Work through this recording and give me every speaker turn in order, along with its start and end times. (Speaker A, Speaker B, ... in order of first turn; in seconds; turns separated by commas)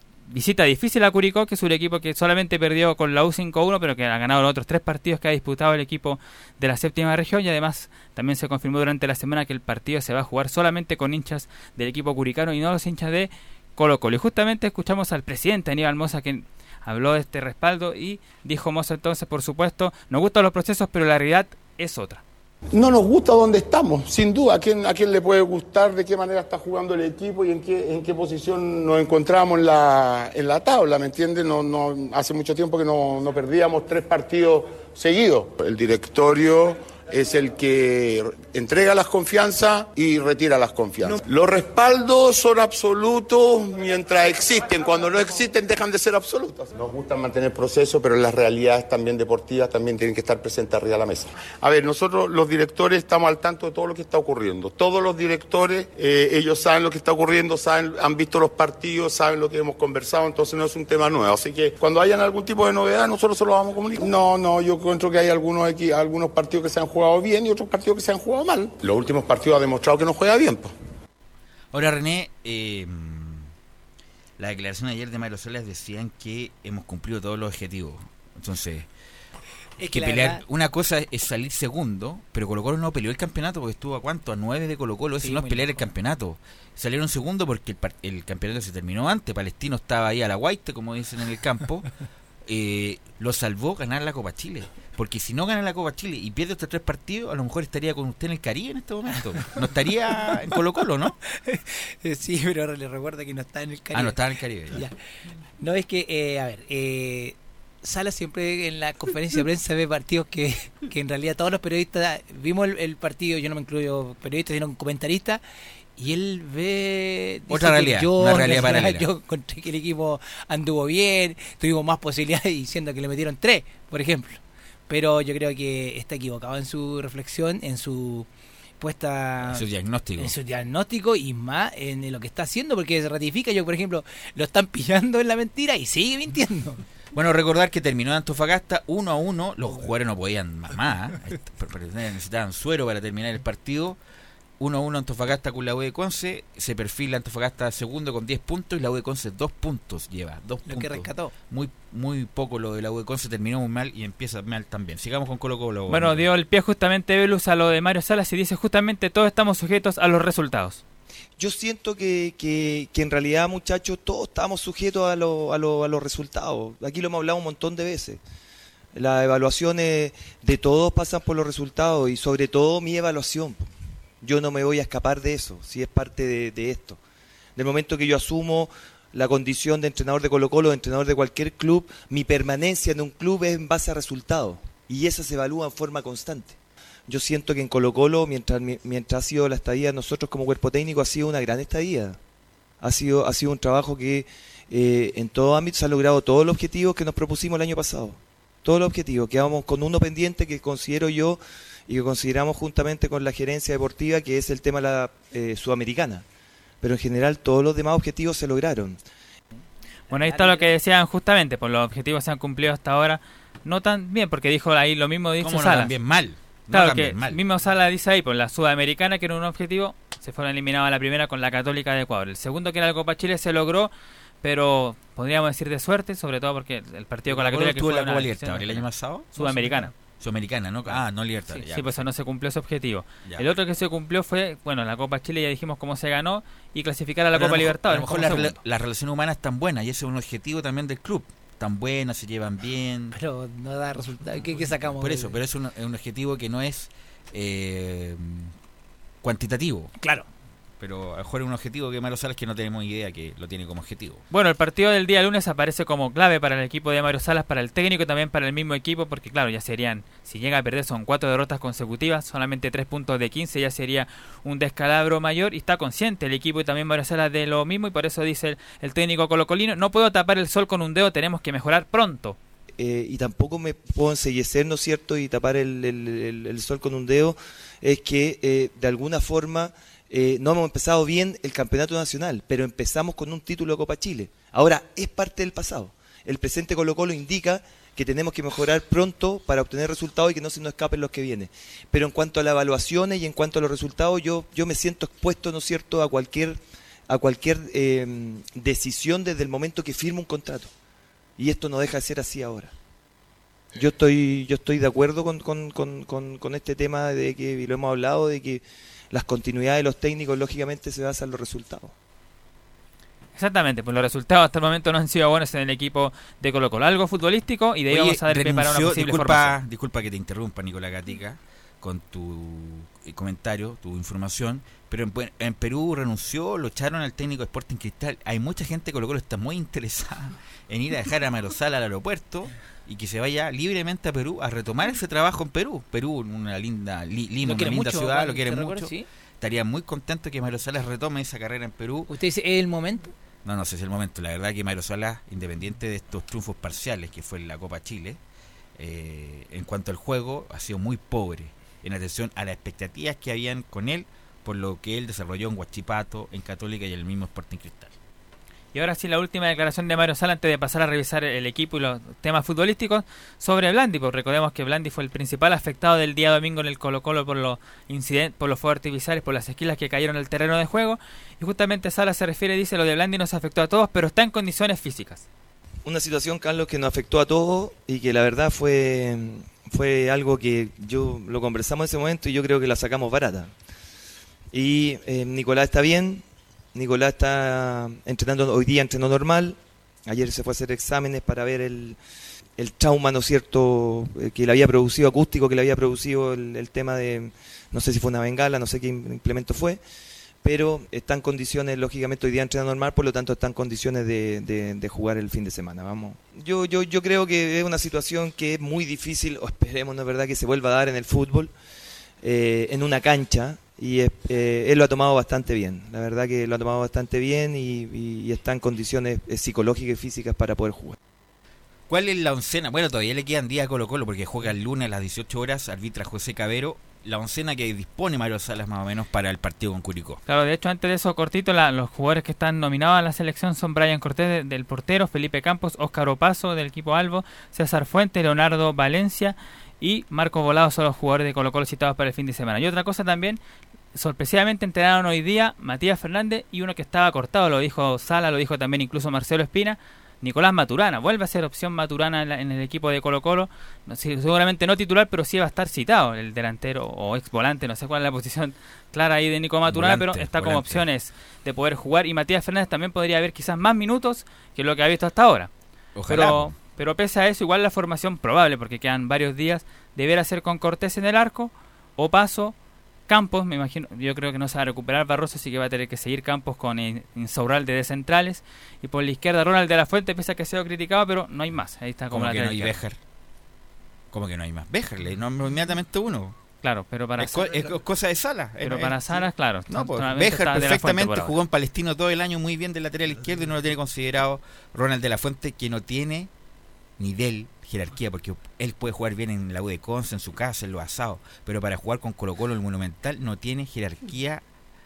Speaker A: 0.3-22.2, Speaker B: 22.7-70.7, Speaker C: 71.7-73.5, Speaker C: 74.4-78.9, Speaker D: 79.8-80.4, Speaker C: 79.9-91.9, Speaker D: 85.2-85.9, Speaker C: 92.5-101.2, Speaker D: 101.3-104.2, Speaker C: 103.9-104.8, Speaker D: 104.7-105.0, Speaker D: 105.6-115.4, Speaker D: 116.0-128.3, Speaker C: 117.5-119.1, Speaker D: 128.8-129.7, Speaker C: 129.5-130.3, Speaker D: 130.2-136.8, Speaker C: 137.1-144.0, Speaker C: 144.6-156.3, Speaker D: 150.7-151.3, Speaker A: 155.9-160.8, Speaker E: 161.4-168.2, Speaker E: 168.9-173.7, Speaker E: 174.2-177.0, Speaker E: 177.6-186.6, Speaker E: 187.1-192.2, Speaker E: 192.8-206.2, Speaker E: 206.8-209.0, Speaker D: 210.1-210.7, Speaker A: 210.1-215.9, Speaker C: 215.4-217.4, Speaker A: 216.7-229.9, Speaker C: 227.3-232.1, Speaker A: 231.7-238.6, Speaker C: 237.3-243.2, Speaker D: 243.1-245.4, Speaker C: 245.0-248.5, Speaker C: 249.2-249.9, Speaker D: 250.0-250.3, Speaker C: 250.8-254.2, Speaker A: 254.3-272.4, Speaker E: 272.8-300.7, Speaker E: 301.4-302.7, Speaker E: 303.8-311.9, Speaker A: 313.4-319.6, Speaker C: 317.9-342.1, Speaker D: 337.4-339.1, Speaker D: 342.1-343.1, Speaker C: 343.4-348.2, Speaker C: 348.8-357.9, Speaker A: 358.7-375.2, Speaker E: 375.9-383.5, Speaker E: 384.5-386.2, Speaker E: 386.7-392.0, Speaker E: 392.6-399.8, Speaker E: 400.4-411.5, Speaker E: 412.2-421.0, Speaker C: 421.9-430.2, Speaker A: 430.3-443.4, Speaker A: 443.9-472.6, Speaker C: 459.7-460.9, Speaker C: 465.9-466.6, Speaker A: 473.1-482.8, Speaker C: 482.1-483.0, Speaker C: 484.1-486.4, Speaker A: 486.6-487.8, Speaker C: 487.2-496.3, Speaker A: 488.6-491.4, Speaker C: 497.0-504.4